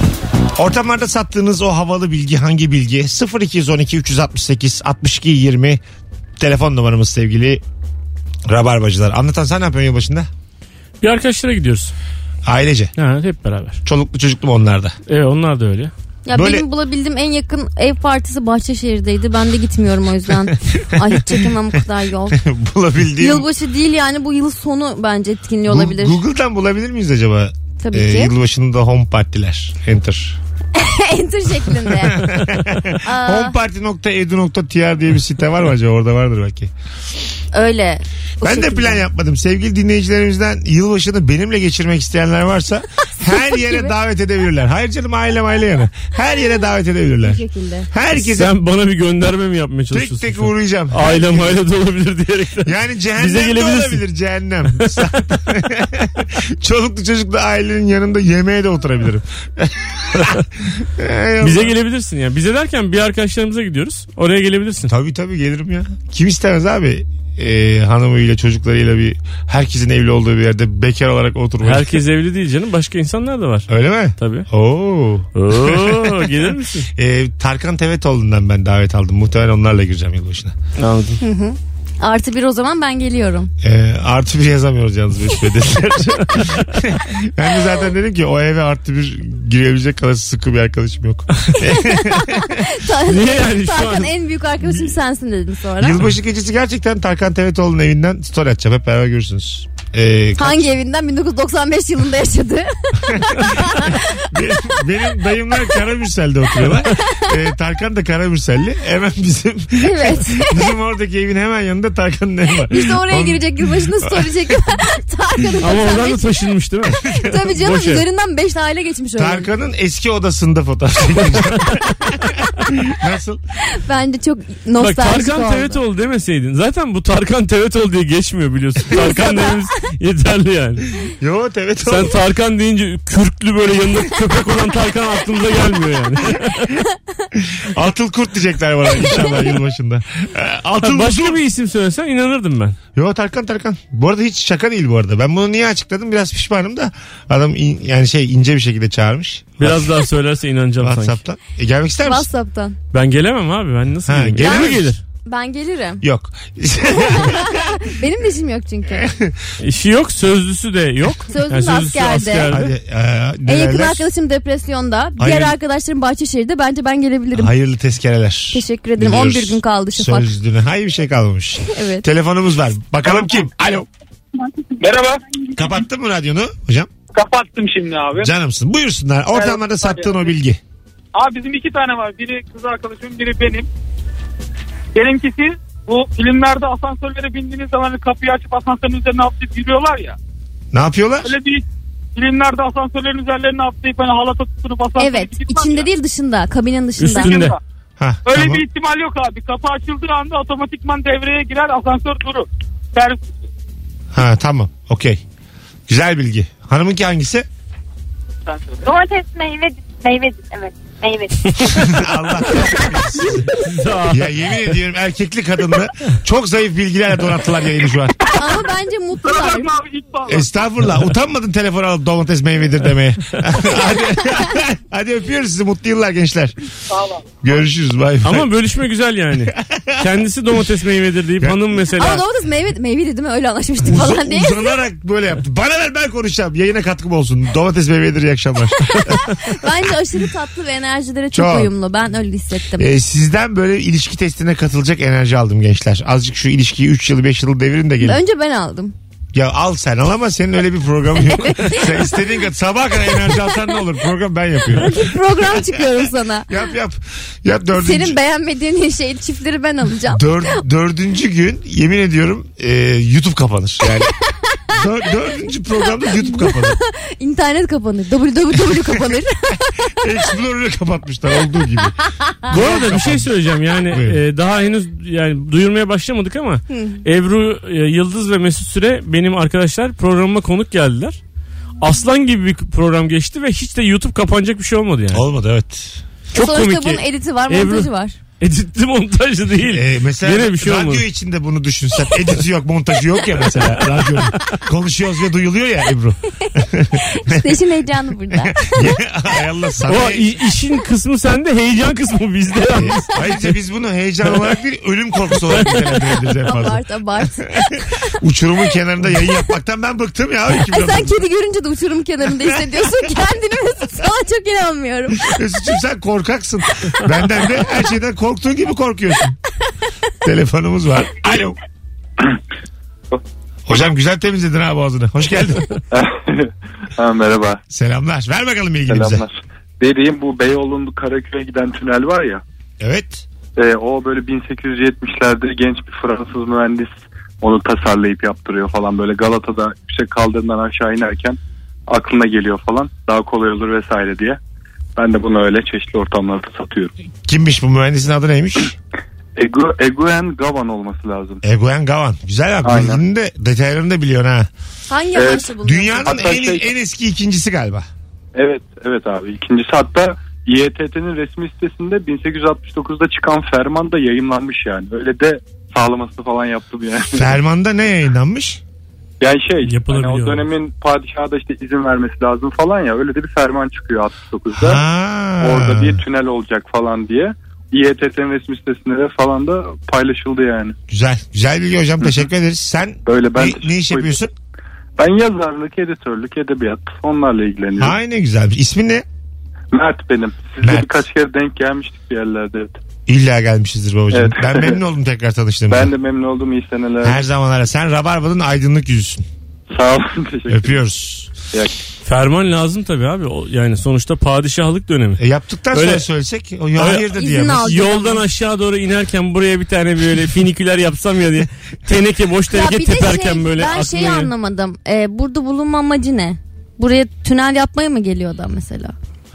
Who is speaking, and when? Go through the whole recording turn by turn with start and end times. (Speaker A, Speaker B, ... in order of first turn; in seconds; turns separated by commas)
Speaker A: 0.6-5.8, Speaker A: 6.4-7.6, Speaker A: 8.5-10.3, Speaker B: 11.0-11.9, Speaker A: 12.4-12.9, Speaker B: 13.0-13.8, Speaker A: 13.8-15.0, Speaker B: 15.1-15.9, Speaker C: 16.2-22.4, Speaker A: 16.3-16.7, Speaker A: 20.3-21.5, Speaker A: 22.3-23.5, Speaker C: 23.2-26.2, Speaker A: 25.7-30.4, Speaker C: 27.8-28.3, Speaker C: 30.8-32.5, Speaker A: 31.8-36.7, Speaker C: 33.0-33.6, Speaker C: 37.5-39.0, Speaker A: 38.4-48.5, Speaker C: 43.2-43.9, Speaker C: 47.2-47.9, Speaker B: 48.1-54.0, Speaker A: 49.9-51.6, Speaker A: 52.6-61.7, Speaker B: 54.8-55.1, Speaker B: 61.4-64.9, Speaker A: 64.8-72.0, Speaker B: 71.6-74.5, Speaker A: 73.7-80.5, Speaker B: 75.3-76.9, Speaker B: 80.8-81.2, Speaker C: 81.2-83.5, Speaker A: 83.6-92.6, Speaker C: 91.6-96.0, Speaker B: 93.0-94.1, Speaker A: 95.8-100.7, Speaker C: 100.4-104.2, Speaker A: 103.1-114.5, Speaker C: 107.0-107.3, Speaker C: 109.8-110.7, Speaker C: 112.7-116.3, Speaker B: 115.6-118.0, Speaker A: 116.9-117.4, Speaker C: 117.0-119.5, Speaker A: 119.2-123.4, Speaker C: 123.8-125.8, Speaker B: 124.8-130.9, Speaker C: 128.9-129.5, Speaker A: 131.2-132.2, Speaker B: 131.8-136.7, Speaker A: 137.3-141.4, Speaker B: 140.8-142.8, Speaker A: 142.9-150.0, Speaker B: 149.6-151.2, Speaker A: 150.8-152.3, Speaker C: 152.0-152.8, Speaker B: 152.9-155.0, Speaker A: 154.1-154.9, Speaker C: 154.4-154.7, Speaker C: 155.2-156.0, Speaker A: 156.0-157.8, Speaker C: 156.9-159.1, Speaker A: 158.9-159.4, Speaker B: 159.6-162.7, Speaker C: 161.3-162.5, Speaker A: 162.5-164.1, Speaker C: 163.5-167.5, Speaker A: 165.2-165.6, Speaker A: 167.3-173.9, Speaker C: 168.5-170.3, Speaker C: 171.7-172.1, Speaker D: 174.8-175.4, Speaker A: 175.5-176.9, Speaker D: 177.1-178.3, Speaker A: 178.2-180.6, Speaker D: 179.3-180.3, Speaker D: 181.2-183.7, Speaker D: 184.9-190.2, Speaker A: 190.7-191.3, Speaker D: 191.2-191.7, Speaker D: 192.2-195.9, Speaker C: 195.0-197.4, Speaker B: 197.0-197.6, Speaker D: 197.2-197.6, Speaker A: 198.0-198.6, Speaker D: 198.2-203.3, Speaker A: 204.1-205.2, Speaker A: 205.9-207.5, Speaker D: 208.5-208.8, Speaker E: 208.8-211.7, Speaker B: 211.5-211.8, Speaker A: 211.7-213.5, Speaker B: 213.2-214.6, Speaker A: 214.1-218.2, Speaker D: 218.2-218.7, Speaker C: 218.3-219.7, Speaker D: 219.2-220.5, Speaker A: 220.3-226.6, Speaker D: 226.9-227.4, Speaker A: 227.4-228.5, Speaker B: 228.2-232.2, Speaker A: 229.4-230.1, Speaker C: 232.0-234.8, Speaker A: 233.8-239.5, Speaker C: 238.9-242.9, Speaker A: 241.3-241.7, Speaker A: 242.8-248.2, Speaker C: 248.0-248.9, Speaker A: 249.3-258.2, Speaker C: 251.3-252.2, Speaker C: 254.7-256.7, Speaker C: 257.7-260.6, Speaker A: 260.1-264.1, Speaker A: 264.7-266.8, Speaker C: 265.9-269.9, Speaker A: 269.6-274.2, Speaker C: 272.2-272.5, Speaker B: 272.5-281.2, Speaker C: 276.7-277.0, Speaker B: 281.8-285.2, Speaker A: 285.1-286.0, Speaker B: 286.3-291.0, Speaker C: 286.3-288.2, Speaker A: 289.6-297.6, Speaker B: 293.8-294.6, Speaker C: 297.1-298.9, Speaker A: 298.3-300.4, Speaker B: 299.9-303.5, Speaker A: 302.7-306.8, Speaker B: 305.5-305.9, Speaker C: 306.4-308.0, Speaker A: 307.5-311.2, Speaker C: 310.7-315.4, Speaker A: 315.2-319.4, Speaker A: 320.2-321.6, Speaker A: 323.7-325.7, Speaker F: 325.9-327.6, Speaker A: 327.7-329.2, Speaker F: 328.9-332.4, Speaker A: 332.8-333.2, Speaker F: 333.6-344.4, Speaker F: 345.0-346.9, Speaker A: 347.3-348.7, Speaker F: 349.4-351.4, Speaker A: 351.4-354.5, Speaker F: 352.6-353.0, Speaker C: 354.9-356.3, Speaker F: 355.1-355.5, Speaker A: 355.6-357.9, Speaker F: 356.1-356.7, Speaker F: 358.4-367.4, Speaker A: 367.2-368.6, Speaker F: 369.2-374.8, Speaker B: 369.6-370.5, Speaker A: 374.6-376.0, Speaker F: 375.4-380.8, Speaker A: 380.9-384.3, Speaker F: 383.1-384.2, Speaker F: 385.0-387.9, Speaker A: 387.8-389.1, Speaker F: 389.7-392.8, Speaker A: 390.6-390.9, Speaker A: 393.1-395.9, Speaker F: 394.1-394.8, Speaker F: 395.7-397.2, Speaker A: 397.0-399.2, Speaker F: 399.7-400.8, Speaker A: 400.5-401.3, Speaker B: 402.0-406.0, Speaker A: 405.2-407.7, Speaker B: 406.8-407.1, Speaker C: 407.1-408.2, Speaker B: 407.6-414.3, Speaker C: 412.5-418.9